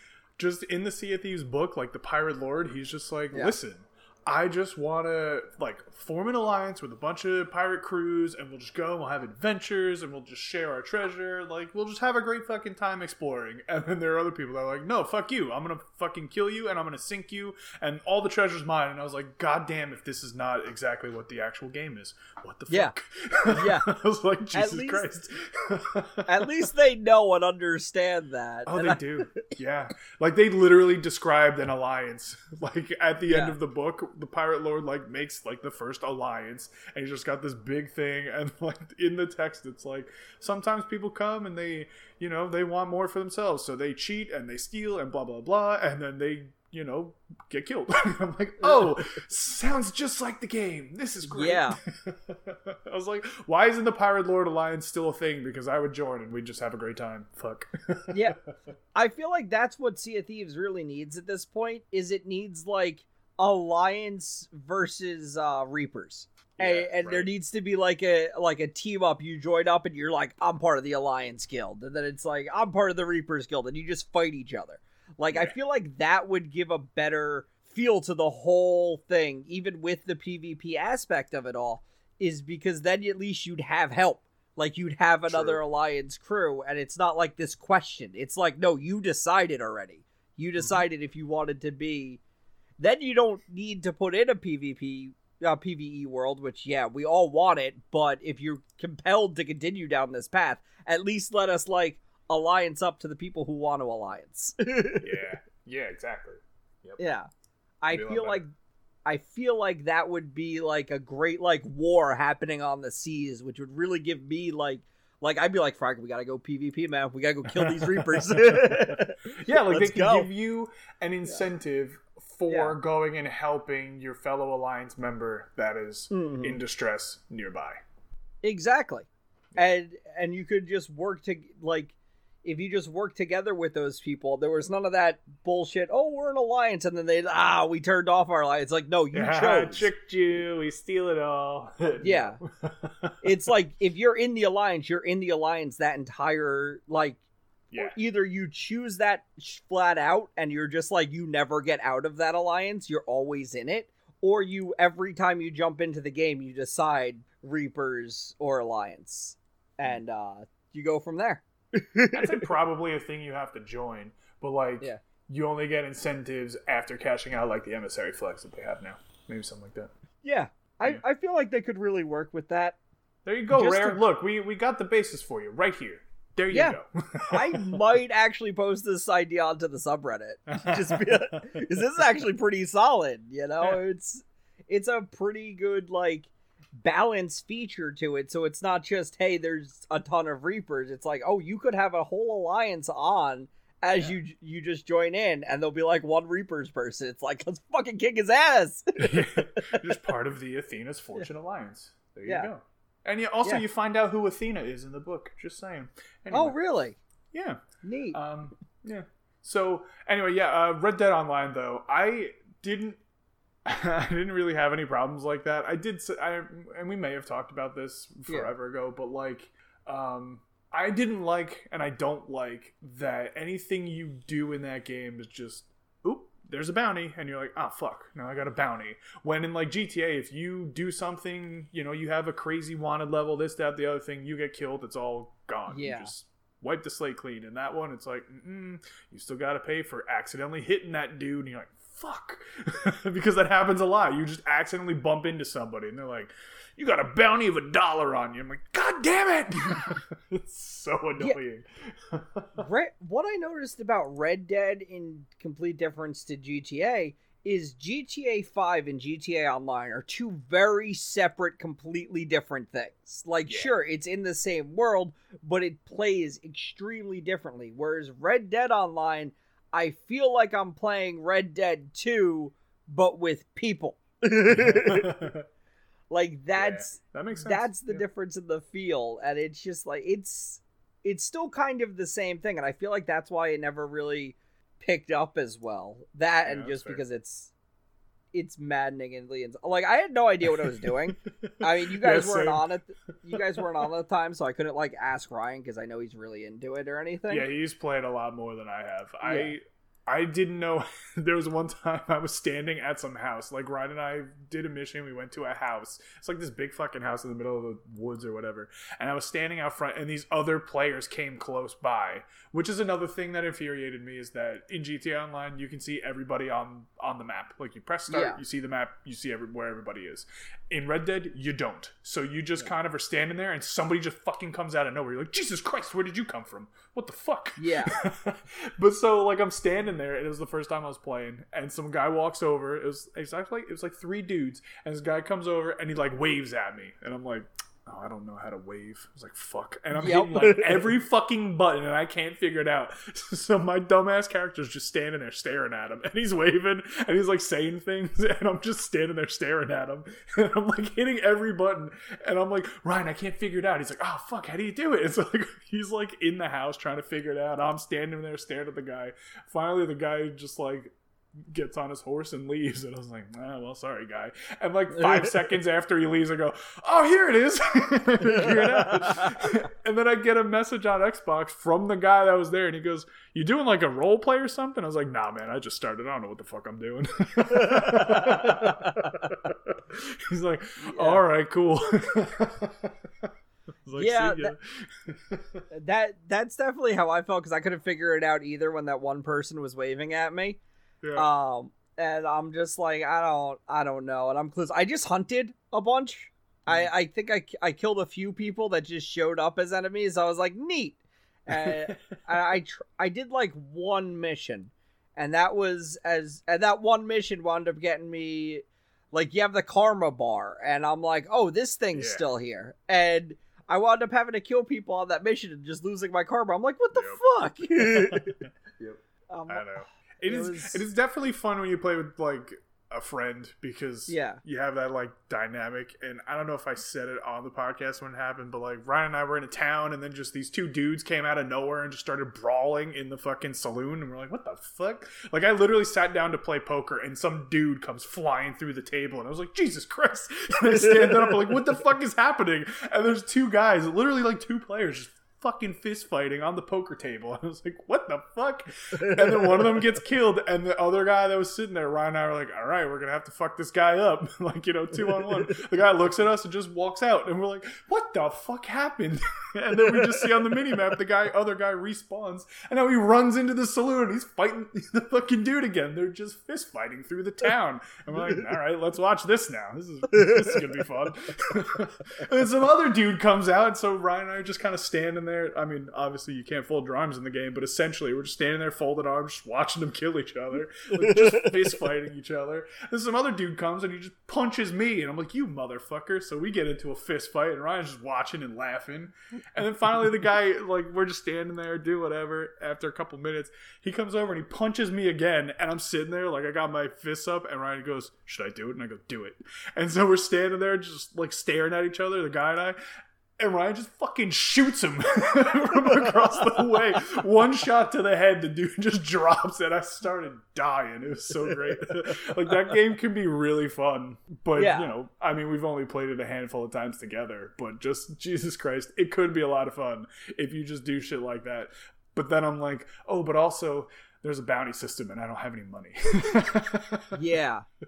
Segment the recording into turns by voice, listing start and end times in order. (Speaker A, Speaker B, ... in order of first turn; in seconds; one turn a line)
Speaker A: 0.4-26.7
Speaker B: 22.7-22.9
Speaker B: 23.5-23.9
Speaker B: 24.5-25.1
Speaker B: 26.3-29.4
Speaker A: 28.6-58.2
Speaker B: 33.3-33.6
Speaker B: 48.6-49.0
Speaker B: 51.2-51.8
Speaker B: 58.1-58.4
Speaker B: 58.9-92.2
Speaker A: 66.6-67.3
Speaker A: 75.3-75.5
Speaker A: 85.3-85.6
Speaker B: 92.8-105.2
Speaker A: 105.0-107.0
Speaker B: 107.0-107.3
Speaker B: 107.8-108.5
Speaker A: 107.9-108.4
Speaker B: 109.0-120.3
Speaker A: 117.5-127.8
Speaker B: 122.5-122.8
Speaker B: 126.1-126.6
Speaker B: 128.4-139.9
Speaker A: 139.1-143.4
Speaker B: 142.0-142.4
Speaker B: 143.2-147.2
Speaker A: 147.7-148.0
Speaker B: 147.8-162.5
Speaker A: 162.1-169.9
Speaker B: 170.2-172.8
Speaker A: 173.2-177.9
Speaker B: 173.5-174.0
Speaker B: 176.5-176.8
Speaker B: 177.3-199.8
Speaker A: 180.5-181.7
Speaker A: 199.0-206.6
Speaker B: 202.2-202.5
Speaker B: 206.3-207.0
Speaker A: 207.3-213.0
Speaker B: 207.8-208.2
Speaker A: 213.6-252.7
Speaker B: 235.7-236.1
Speaker B: 252.6-275.2
Speaker A: 263.5-263.7
Speaker A: 274.4-275.4
Speaker B: 276.1-287.5
Speaker A: 276.5-278.0
Speaker A: 286.4-287.0
Speaker B: 288.3-297.5
Speaker A: 290.5-292.7
Speaker A: 297.3-382.9
Speaker B: 299.2-299.5
Speaker B: 318.1-318.4
Speaker B: 327.6-328.0
Speaker B: 339.9-340.9
Speaker B: 364.9-365.4
Speaker B: 368.3-369.3
Speaker B: 377.5-379.3
Speaker B: 380.8-381.2
Speaker A: 383.8-385.6
Speaker B: 383.9-384.5
Speaker B: 385.7-390.6
Speaker A: 391.0-391.3
Speaker B: 391.1-418.4
Speaker A: 401.5-402.5
Speaker A: 411.9-412.3
Speaker A: 416.9-417.2
Speaker A: 417.7-502.8
Speaker B: 419.3-420.8
Speaker B: 424.1-424.4
Speaker B: 449.0-449.6
Speaker B: 481.0-481.5
Speaker A: 503.4-527.2
Speaker B: 514.5-514.9
Speaker B: 527.1-527.6